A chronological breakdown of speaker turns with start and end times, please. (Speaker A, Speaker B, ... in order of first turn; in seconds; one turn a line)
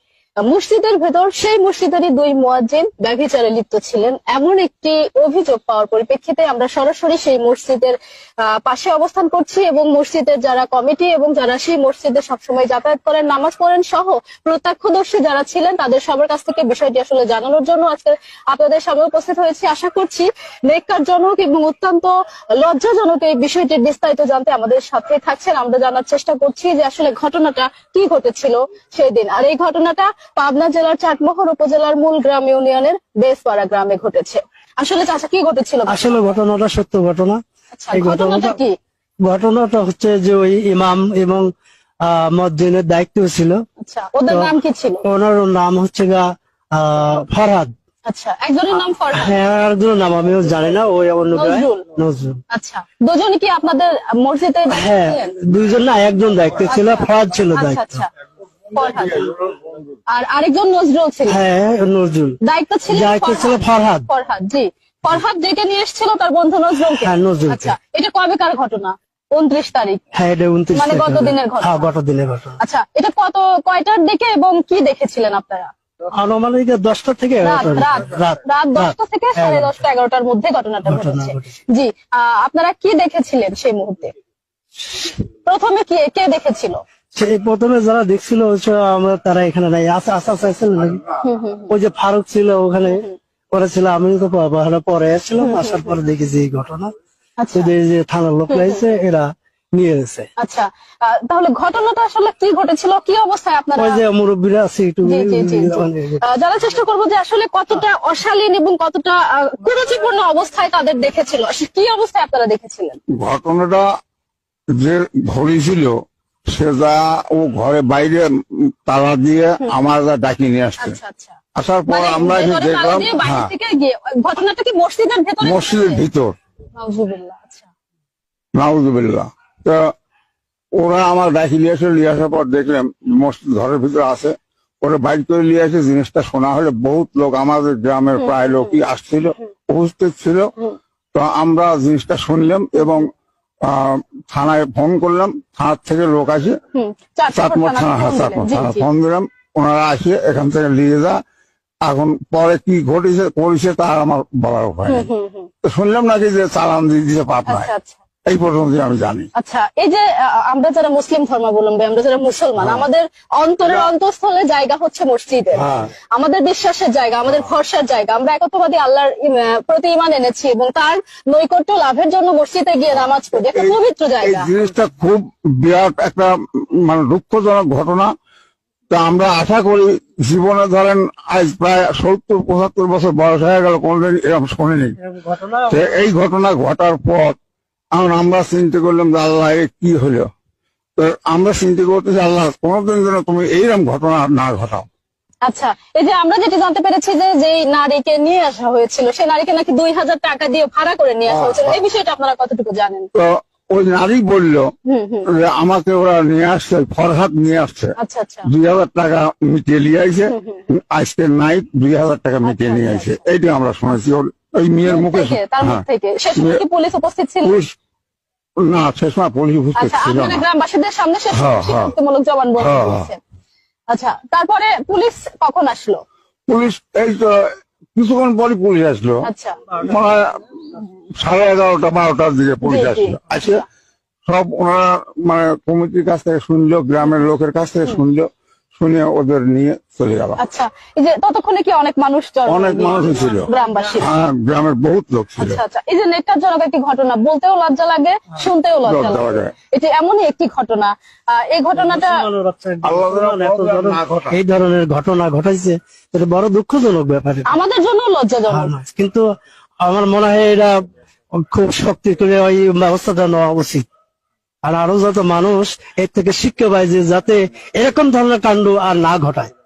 Speaker A: 0.5-36.3
Speaker B: 35.9-37.4
Speaker A: 37.7-38.7
Speaker B: 37.9-38.6
Speaker B: 39.2-41.5
Speaker B: 42.0-43.6
Speaker A: 43.8-45.0
Speaker B: 44.3-44.5
Speaker B: 45.0-47.7
Speaker A: 48.1-49.3
Speaker B: 49.1-52.4
Speaker A: 51.3-51.8
Speaker A: 52.5-55.3
Speaker B: 54.7-58.0
Speaker A: 56.7-58.1
Speaker A: 58.7-59.3
Speaker A: 60.1-61.4
Speaker B: 61.3-62.4
Speaker A: 62.4-70.0
Speaker B: 62.9-64.1
Speaker B: 66.8-67.7
Speaker B: 70.1-72.6
Speaker A: 70.7-71.9
Speaker A: 72.6-75.7
Speaker B: 76.1-79.8
Speaker A: 77.4-84.1
Speaker B: 80.8-81.5
Speaker A: 85.5-86.8
Speaker B: 87.1-91.0
Speaker A: 91.2-91.7
Speaker B: 91.7-96.9
Speaker A: 92.8-93.2
Speaker A: 95.4-95.9
Speaker A: 97.4-97.7
Speaker B: 97.5-100.3
Speaker A: 98.5-98.8
Speaker A: 100.4-104.0
Speaker B: 103.8-106.2
Speaker A: 105.0-113.0
Speaker C: 113.1-113.8
Speaker C: 114.8-115.9
Speaker C: 116.5-118.3
Speaker C: 118.8-121.0
Speaker A: 120.8-121.4
Speaker C: 121.5-123.5
Speaker A: 121.9-126.0
Speaker C: 125.4-126.3
Speaker A: 126.8-127.7
Speaker C: 128.5-129.8
Speaker C: 130.7-140.5
Speaker A: 138.2-138.8
Speaker C: 141.1-143.0
Speaker C: 143.7-146.6
Speaker A: 146.7-148.8
Speaker C: 147.3-151.2
Speaker C: 151.8-155.1
Speaker A: 154.9-155.5
Speaker C: 155.6-157.7
Speaker A: 157.5-158.0
Speaker C: 158.2-159.3
Speaker A: 159.3-174.5
Speaker C: 162.6-162.8
Speaker C: 165.5-165.9
Speaker C: 172.9-178.1
Speaker C: 178.9-184.9
Speaker B: 185.0-186.0
Speaker C: 185.7-187.3
Speaker C: 187.9-190.3
Speaker C: 191.0-194.8
Speaker A: 195.4-203.1
Speaker C: 201.3-201.8
Speaker C: 203.1-204.7
Speaker A: 204.9-205.3
Speaker C: 205.3-207.9
Speaker A: 208.0-208.5
Speaker C: 208.5-215.8
Speaker A: 210.3-210.7
Speaker A: 212.4-213.2
Speaker A: 214.8-217.5
Speaker C: 216.3-216.6
Speaker C: 217.4-217.7
Speaker C: 218.6-220.4
Speaker A: 219.8-223.2
Speaker C: 221.3-221.9
Speaker C: 222.6-223.1
Speaker A: 223.9-226.0
Speaker C: 226.5-227.4
Speaker C: 227.9-229.2
Speaker A: 229.2-229.6
Speaker C: 229.7-230.4
Speaker C: 231.2-233.6
Speaker A: 232.6-233.6
Speaker C: 234.3-240.4
Speaker A: 240.4-244.1
Speaker C: 242.4-243.5
Speaker C: 244.0-245.6
Speaker A: 245.4-252.2
Speaker C: 248.8-249.5
Speaker B: 251.7-257.6
Speaker C: 252.8-254.3
Speaker A: 257.5-258.7
Speaker B: 258.5-259.2
Speaker B: 259.8-260.7
Speaker B: 261.3-263.9
Speaker B: 264.6-269.5